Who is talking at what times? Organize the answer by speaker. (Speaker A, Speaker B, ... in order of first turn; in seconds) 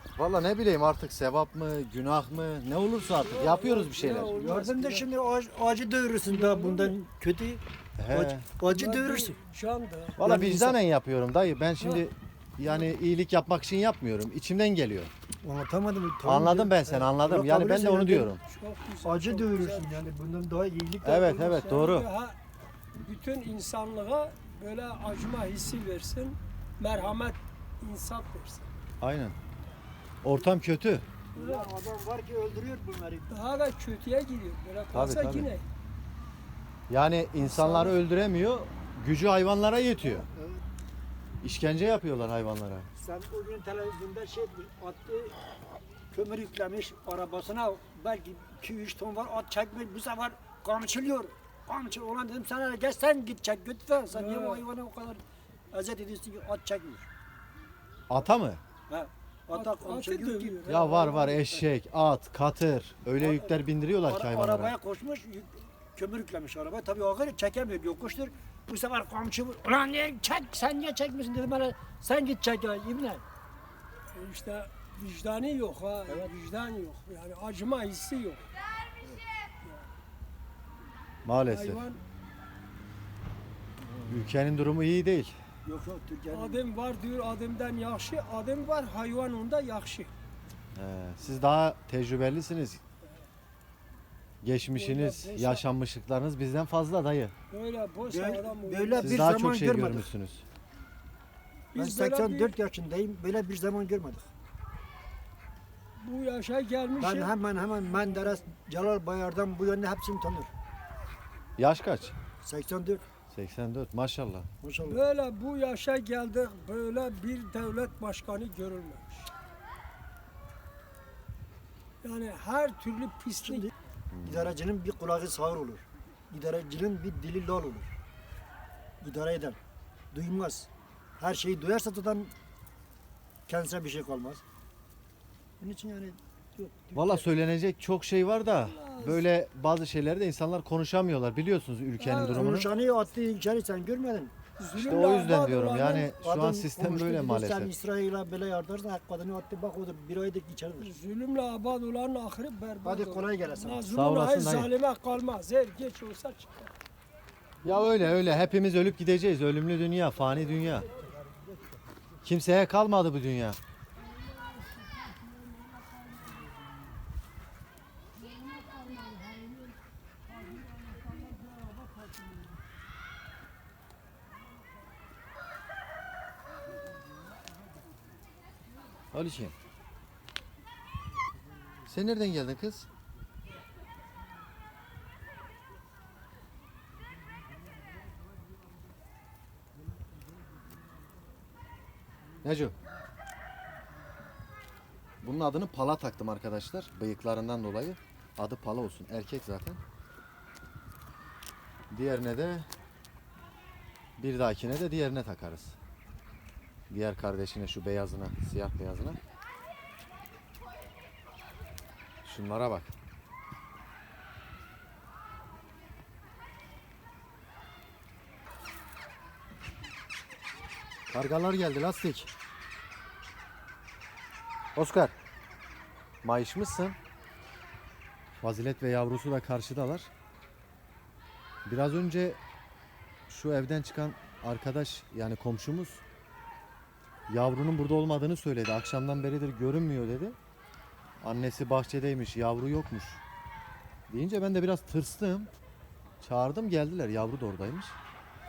Speaker A: 0.2-4.4, 8.0-8.5, 10.2-15.1, 16.2-18.4, 21.0-22.1, 29.0-29.4, 30.2-31.1, 34.9-35.5, 36.9-40.3, 41.4-42.9, 58.1-58.6, 60.6-64.8, 81.2-81.8, 84.0-85.4, 90.8-92.8, 94.4-97.3, 99.0-100.4, 111.6-112.2, 113.3-114.5, 124.1-124.5, 136.9-142.7, 144.8-147.7, 153.9-154.7, 157.6-160.9, 162.2-163.6, 179.1-179.5, 181.9-182.9, 192.4-192.8, 195.2-199.8, 201.9-202.7, 204.2-205.8, 206.9-209.2, 212.2-212.9, 221.1-222.3, 224.8-225.1, 226.2-227.0, 228.4-230.1, 231.7-232.4, 233.3-236.0, 237.3-240.4, 241.2-243.2, 244.1-245.5, 246.2-248.0
Speaker B: 3.2-5.1, 6.2-6.9, 8.6-10.2, 18.4-20.1, 21.3-22.4, 23.0-28.7, 31.3-31.7, 33.3-35.6, 54.0-54.6, 59.5-61.4, 74.1-78.4, 81.5-82.0, 86.3-90.1, 94.6-95.6, 97.5-99.3, 101.7-102.6, 106.0-108.4, 114.8-119.3, 122.0-123.7, 138.6-139.2, 142.0-142.9, 144.6-146.2, 150.8-156.7, 164.8-166.1, 168.3-169.7
Speaker C: 4.3-9.4, 10.2-10.8, 15.4-18.3, 19.0-21.5, 31.3-33.3, 40.1-40.6, 43.0-45.4, 46.1-57.1, 58.9-60.8, 63.2-73.2, 76.1-76.3, 85.6-86.6, 98.0-100.1, 101.8-104.3, 107.0-110.5, 112.4-113.0, 114.6-115.0, 124.2-127.9, 129.0-129.6, 130.1-132.3, 133.5-134.4, 135.6-137.3, 142.3-144.3, 146.2-150.9, 152.8-153.9, 160.3-161.5